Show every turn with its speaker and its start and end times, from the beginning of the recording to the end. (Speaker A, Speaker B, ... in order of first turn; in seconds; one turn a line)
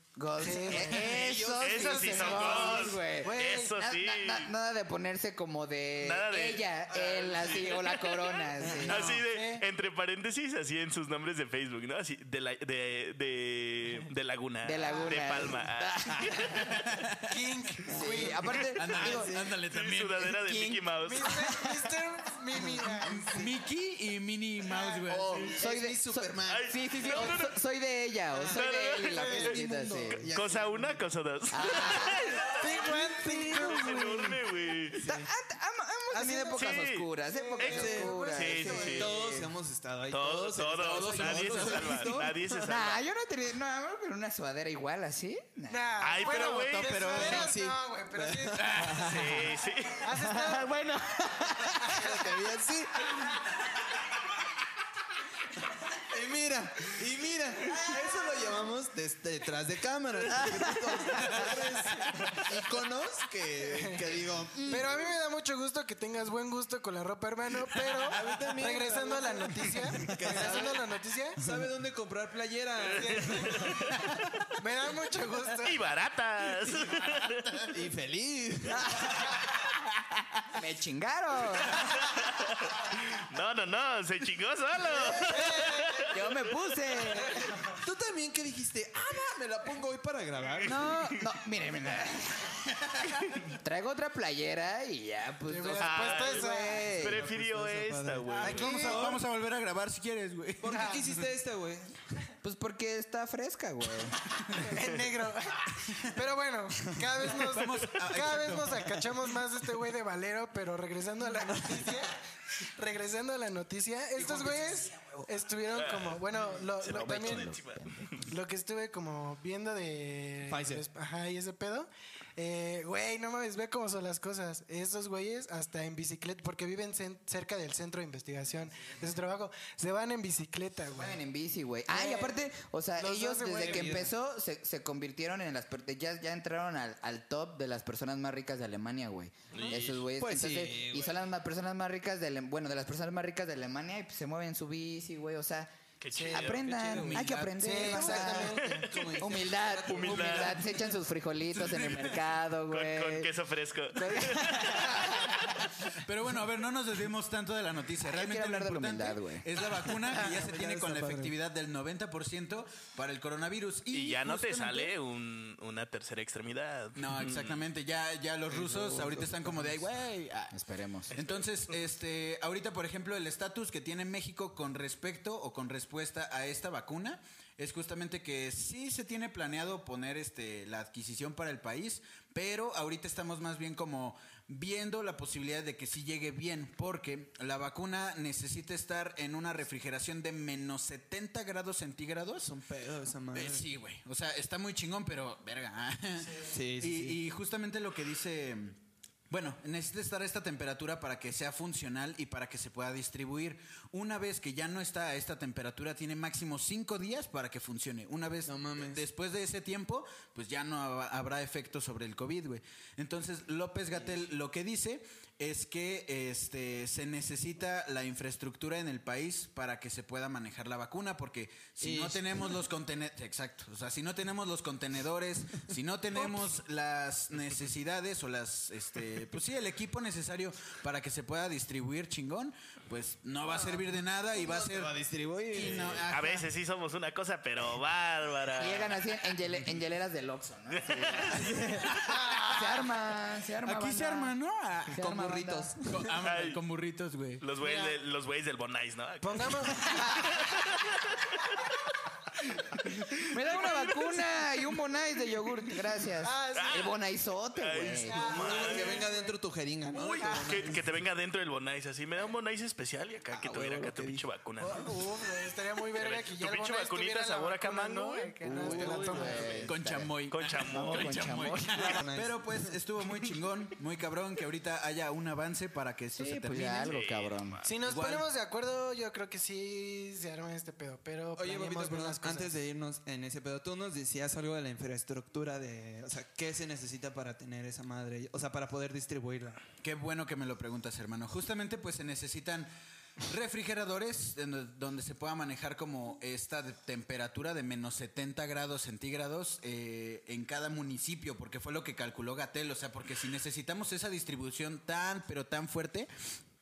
Speaker A: 0.1-9.2
Speaker B: 0.4-3.8
Speaker C: 0.9-2.5
Speaker D: 1.0-4.5
Speaker D: 6.0-6.7
Speaker C: 6.9-7.7
Speaker D: 7.3-16.7
Speaker C: 8.6-9.0
Speaker E: 8.8-9.2
Speaker B: 9.3-9.7
Speaker A: 14.6-16.7
Speaker B: 14.8-15.2
Speaker E: 16.5-17.9
Speaker B: 17.3-18.6
Speaker A: 17.9-19.3
Speaker E: 18.7-20.9
Speaker C: 18.9-19.4
Speaker D: 19.6-21.3
Speaker B: 21.0-23.2
Speaker A: 21.3-21.6
Speaker C: 22.6-23.5
Speaker E: 23.0-25.7
Speaker B: 24.7-25.4
Speaker C: 25.0-26.6
Speaker A: 25.4-30.3
Speaker D: 26.5-27.6
Speaker C: 28.3-31.0
Speaker D: 28.5-29.6
Speaker B: 29.1-29.5
Speaker D: 30.3-32.6
Speaker A: 31.5-32.5
Speaker B: 32.5-34.4
Speaker A: 33.1-34.0
Speaker C: 33.2-33.6
Speaker D: 33.6-35.0
Speaker C: 35.0-35.3
Speaker A: 35.0-39.4
Speaker B: 36.1-39.2
Speaker D: 36.5-37.1
Speaker D: 37.6-39.2
Speaker C: 37.6-38.2
Speaker C: 38.9-42.4
Speaker D: 40.1-43.0
Speaker E: 40.8-42.3
Speaker A: 42.5-45.9
Speaker B: 45.7-48.9
Speaker D: 46.0-47.3
Speaker E: 46.3-47.5
Speaker C: 47.1-49.5
Speaker E: 48.6-49.5
Speaker D: 49.0-50.1
Speaker B: 50.0-50.7
Speaker A: 50.1-52.0
Speaker C: 51.6-53.3
Speaker B: 51.7-52.3
Speaker C: 55.9-65.0
Speaker A: 60.3-61.4
Speaker E: 61.2-61.5
Speaker B: 63.6-64.0
Speaker B: 64.6-71.4
Speaker C: 67.8-73.8
Speaker B: 72.9-74.0
Speaker D: 73.0-74.2
Speaker B: 74.6-75.8
Speaker D: 75.6-77.7
Speaker C: 77.7-79.3
Speaker A: 78.9-79.2
Speaker A: 80.5-81.9
Speaker D: 81.8-86.5
Speaker B: 85.0-86.0
Speaker A: 86.1-87.5
Speaker C: 87.8-91.1
Speaker A: 90.6-92.8
Speaker E: 92.9-93.3
Speaker A: 93.4-97.2
Speaker B: 95.5-96.9
Speaker D: 95.8-99.0
Speaker C: 97.0-99.2
Speaker E: 98.3-101.1
Speaker B: 98.4-99.2
Speaker C: 100.6-102.0
Speaker B: 100.7-101.0
Speaker A: 102.4-104.2
Speaker E: 104.3-104.8
Speaker B: 104.6-117.5
Speaker E: 107.3-109.0
Speaker C: 111.4-112.0
Speaker D: 115.7-118.3
Speaker A: 116.9-118.1
Speaker B: 118.3-131.2
Speaker C: 120.5-120.8
Speaker A: 130.9-145.7
Speaker B: 131.9-132.4
Speaker B: 133.0-134.1
Speaker C: 133.5-134.1
Speaker D: 139.5-139.9
Speaker C: 139.7-141.2
Speaker D: 146.0-146.7
Speaker B: 146.1-146.6
Speaker A: 146.3-148.6
Speaker C: 146.3-150.8
Speaker E: 147.1-147.9
Speaker B: 147.6-148.9
Speaker D: 148.7-149.2
Speaker A: 149.2-153.3
Speaker D: 149.9-150.6
Speaker E: 151.5-152.2
Speaker D: 152.7-155.6
Speaker A: 153.9-155.4
Speaker E: 155.9-164.9
Speaker A: 158.0-159.5
Speaker C: 159.6-161.3
Speaker D: 163.9-167.6
Speaker E: 166.9-170.6
Speaker C: 168.5-169.8
Speaker A: 170.5-171.1
Speaker E: 171.1-192.5
Speaker D: 171.1-171.4
Speaker C: 192.4-193.7
Speaker E: 193.3-198.8
Speaker C: 196.5-197.2
Speaker E: 199.3-235.0
Speaker C: 208.4-209.0
Speaker C: 213.9-214.2
Speaker C: 221.8-222.6
Speaker C: 226.2-226.5
Speaker C: 233.5-236.1
Speaker E: 235.5-236.5
Speaker D: 236.1-239.0
Speaker A: 238.6-244.3
Speaker D: 240.7-241.9
Speaker E: 241.3-242.6
Speaker B: 242.1-242.6
Speaker E: 243.6-245.0
Speaker A: 244.9-245.7
Speaker C: 245.0-246.1
Speaker E: 245.9-247.4
Speaker D: 246.2-246.6
Speaker D: 247.4-251.6
Speaker B: 247.6-248.0
Speaker B: 249.2-250.6
Speaker D: 253.2-254.4
Speaker A: 253.2-258.4
Speaker B: 256.2-256.9
Speaker D: 256.5-256.9
Speaker D: 257.6-259.1
Speaker B: 257.9-259.4
Speaker C: 258.3-260.9
Speaker E: 259.9-260.7
Speaker B: 260.1-260.7
Speaker D: 260.2-264.9
Speaker C: 263.3-264.9
Speaker B: 264.6-269.7
Speaker D: 265.9-269.6
Speaker A: 268.4-270.1
Speaker C: 268.6-269.5
Speaker E: 269.6-277.0
Speaker D: 270.3-271.2
Speaker A: 270.6-272.0
Speaker C: 271.8-272.7
Speaker A: 276.2-277.6
Speaker D: 276.8-277.8
Speaker B: 277.6-282.5
Speaker E: 277.8-278.2
Speaker C: 281.4-289.6
Speaker E: 289.8-292.7
Speaker E: 293.2-306.1